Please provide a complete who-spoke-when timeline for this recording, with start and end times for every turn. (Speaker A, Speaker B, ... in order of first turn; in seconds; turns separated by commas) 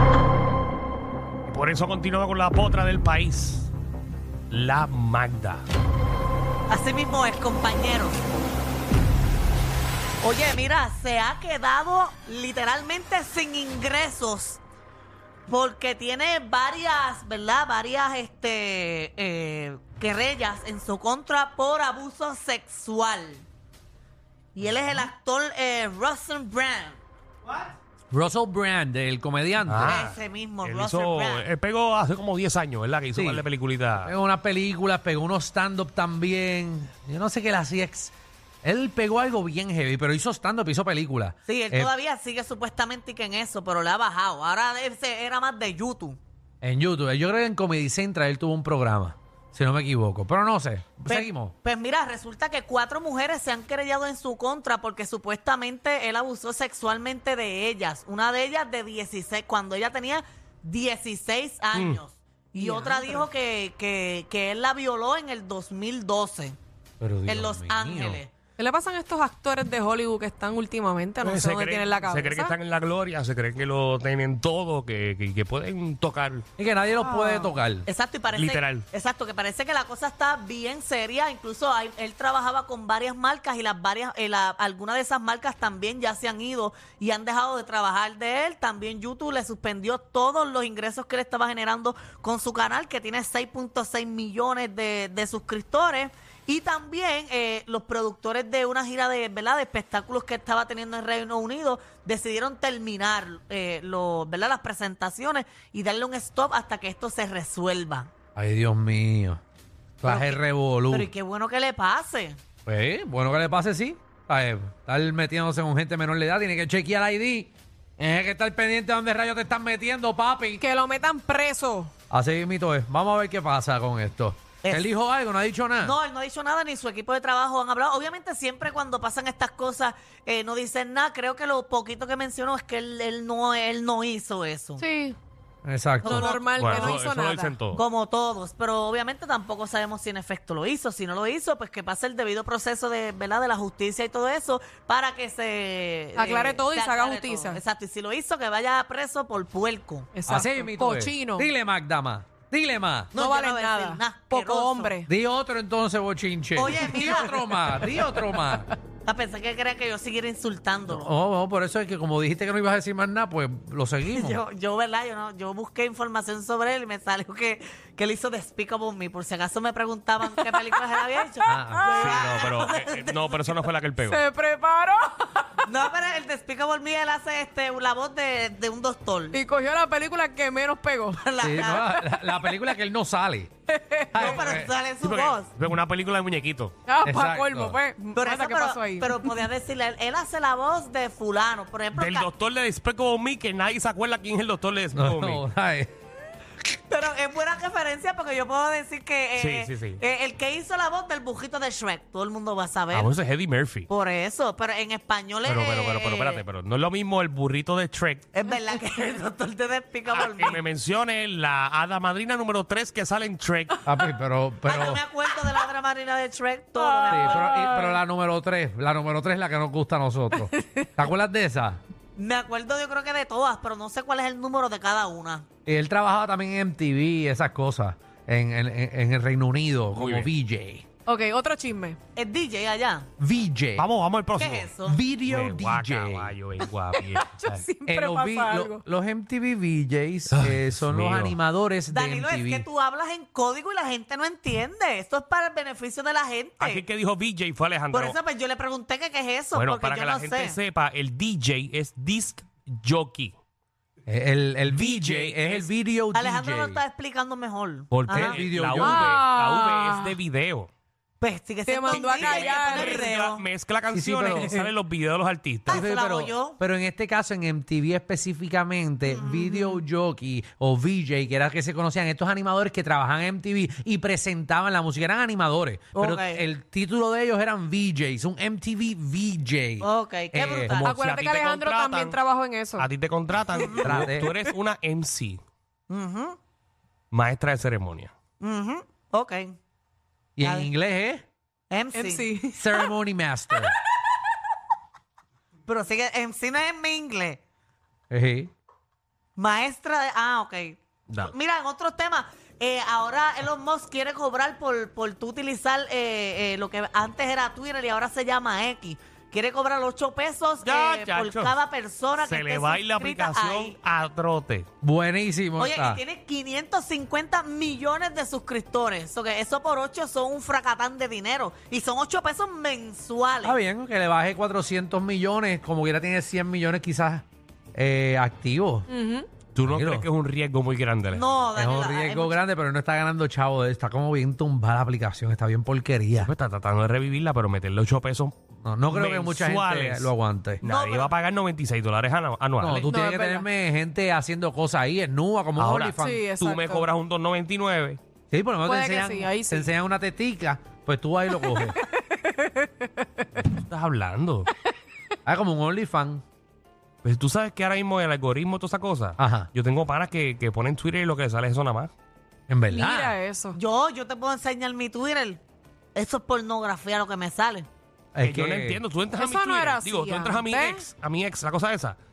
Speaker A: 1.5-3.7, Speaker A: 4.5-5.6, Speaker B: 6.7-8.3, Speaker B: 10.2-14.6, Speaker B: 15.5-23.4, Speaker B: 24.6-27.0, Speaker A: 24.6-25.1, Speaker C: 28.1-30.0, Speaker A: 29.6-34.1, Speaker B: 29.8-31.5, Speaker C: 33.1-33.5, Speaker C: 34.0-41.9, Speaker B: 41.5-46.2, Speaker C: 46.6-51.5, Speaker B: 51.1-66.6, Speaker A: 61.7-62.0, Speaker D: 62.5-63.3, Speaker C: 67.0-68.2, Speaker B: 67.3-68.3, Speaker D: 68.6-72.5, Speaker A: 71.2-76.4, Speaker C: 76.6-77.9, Speaker D: 76.9-77.5, Speaker B: 77.8-108.1, Speaker A: 78.3-78.8, Speaker C: 108.3-109.4, Speaker C: 110.0-111.1, Speaker B: 110.0-112.4, Speaker C: 112.7-120.6, Speaker D: 120.6-121.9, Speaker C: 122.1-126.0, Speaker B: 124.6-124.9, Speaker B: 125.8-134.8, Speaker D: 134.8-135.2, Speaker C: 135.6-136.3, Speaker B: 136.0-136.8, Speaker D: 136.0-137.6, Speaker A: 136.6-137.8, Speaker B: 137.7-150.1, Speaker D: 146.1-147.6, Speaker D: 150.1-151.5, Speaker C: 150.3-153.1, Speaker B: 153.1-155.0, Speaker D: 153.1-155.1, Speaker C: 155.1-158.7, Speaker B: 156.5-157.8, Speaker B: 159.0-161.1, Speaker C: 160.9-164.4, Speaker B: 164.1-173.7, Speaker C: 171.4-172.1, Speaker D: 171.7-172.4, Speaker A: 171.9-174.2, Speaker D: 174.0-175.6, Speaker B: 175.7-179.4, Speaker D: 179.3-181.2, Speaker B: 181.2-181.9, Speaker C: 181.4-183.5, Speaker D: 183.7-184.4, Speaker C: 184.1-184.7, Speaker B: 184.1-185.5, Speaker A: 185.0-186.7, Speaker D: 186.8-189.4, Speaker C: 187.0-187.8, Speaker B: 188.1-192.3, Speaker A: 191.9-195.4, Speaker C: 194.9-195.9, Speaker B: 196.9-203.1, Speaker A: 199.4-200.0, Speaker A: 202.9-203.9, Speaker B: 203.9-206.4, Speaker A: 205.4-208.3, Speaker B: 208.3-210.6, Speaker A: 210.1-213.8, Speaker C: 213.8-215.0, Speaker B: 214.7-217.7, Speaker D: 216.8-218.0, Speaker C: 217.1-221.8, Speaker D: 220.6-220.9, Speaker B: 222.2-225.4, Speaker C: 225.7-230.8, Speaker A: 229.9-230.3, Speaker D: 231.1-232.0, Speaker B: 232.2-233.1, Speaker C: 233.2-233.8, Speaker A: 233.8-234.7, Speaker B: 234.3-235.0, Speaker C: 234.8-236.3, Speaker A: 235.2-237.6, Speaker D: 236.9-238.8, Speaker C: 237.8-242.7, Speaker A: 240.3-241.4, Speaker B: 241.9-246.8, Speaker A: 246.6-248.2, Speaker B: 247.9-250.6, Speaker A: 249.5-253.3, Speaker C: 254.1-256.8, Speaker A: 254.7-255.7, Speaker B: 256.1-258.4, Speaker A: 257.9-260.7, Speaker C: 258.1-259.2, Speaker D: 258.8-260.1, Speaker B: 261.2-263.4, Speaker D: 261.6-263.1, Speaker A: 261.9-265.8, Speaker C: 263.9-264.5, Speaker D: 264.4-264.7, Speaker B: 265.7-266.6, Speaker C: 265.7-280.8, Speaker B: 269.0-269.8, Speaker B: 275.9-276.4, Speaker B: 279.8-281.0, Speaker A: 280.8-282.2, Speaker D: 280.8-282.9, Speaker A: 282.8-285.4, Speaker B: 283.6-284.0, Speaker C: 283.8-284.3, Speaker B: 285.9-286.4, Speaker A: 287.1-288.1, Speaker B: 288.4-289.6, Speaker C: 290.4-291.2, Speaker B: 290.4-290.7, Speaker B: 291.7-292.3, Speaker D: 291.9-292.8, Speaker C: 292.5-293.8, Speaker B: 295.6-297.4, Speaker C: 298.1-298.5, Speaker B: 299.4-313.8, Speaker A: 310.6-311.5, Speaker A: 312.2-314.7, Speaker C: 314.8-316.0, Speaker B: 315.6-323.6, Speaker C: 323.4-328.9, Speaker D: 328.9-329.3, Speaker A: 329.5-331.3, Speaker C: 329.6-330.1, Speaker B: 331.1-332.4, Speaker C: 331.5-336.3, Speaker A: 336.2-338.3, Speaker C: 338.6-340.6, Speaker A: 338.9-340.1, Speaker B: 340.6-341.1, Speaker A: 340.6-342.9, Speaker C: 342.6-346.2, Speaker D: 342.9-343.4, Speaker A: 345.6-348.0, Speaker D: 346.0-346.9, Speaker C: 348.3-351.8, Speaker D: 348.6-349.7, Speaker D: 351.4-353.4, Speaker A: 353.7-354.5, Speaker C: 355.2-356.2, Speaker A: 357.0-361.9, Speaker C: 359.2-359.5, Speaker C: 362.5-363.1, Speaker D: 362.7-363.6, Speaker B: 363.5-365.4, Speaker B: 365.9-367.7, Speaker C: 368.1-368.8, Speaker A: 368.2-372.0, Speaker D: 369.1-370.9